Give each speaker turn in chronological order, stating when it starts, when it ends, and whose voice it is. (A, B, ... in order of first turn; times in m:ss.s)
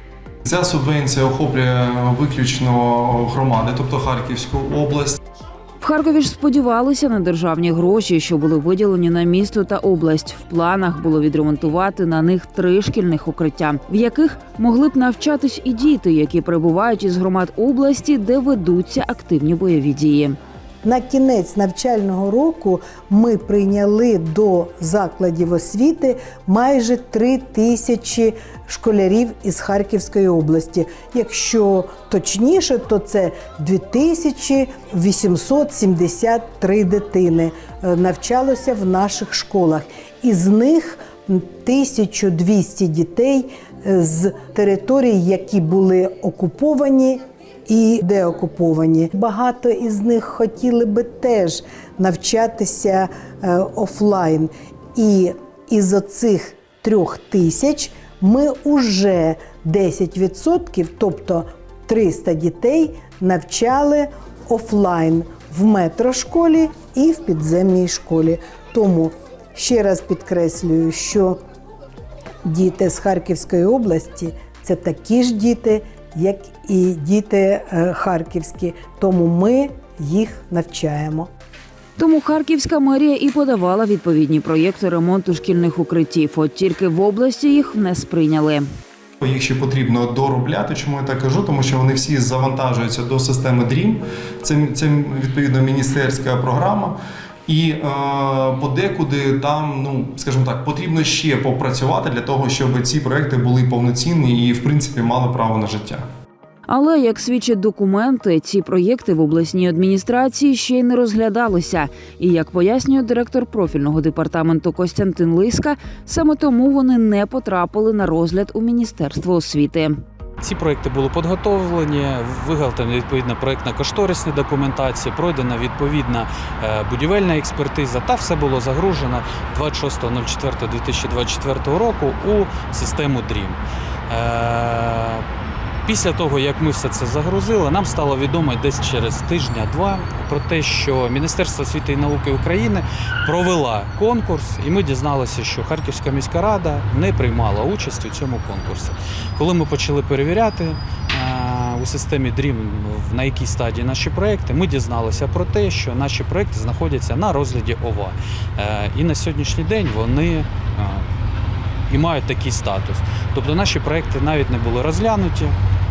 0:00.4-0:05.2 A
0:05.8-0:20.4 B
0:20.8-1:11.4 C
1:12.5-1:21.3 C
1:22.0-1:28.7 B
1:29.2-1:37.0 A
1:37.5-1:46.0 A
1:46.7-2:00.0 B
2:00.4-2:15.2 D
2:15.8-2:41.1 D
2:41.9-2:45.6 D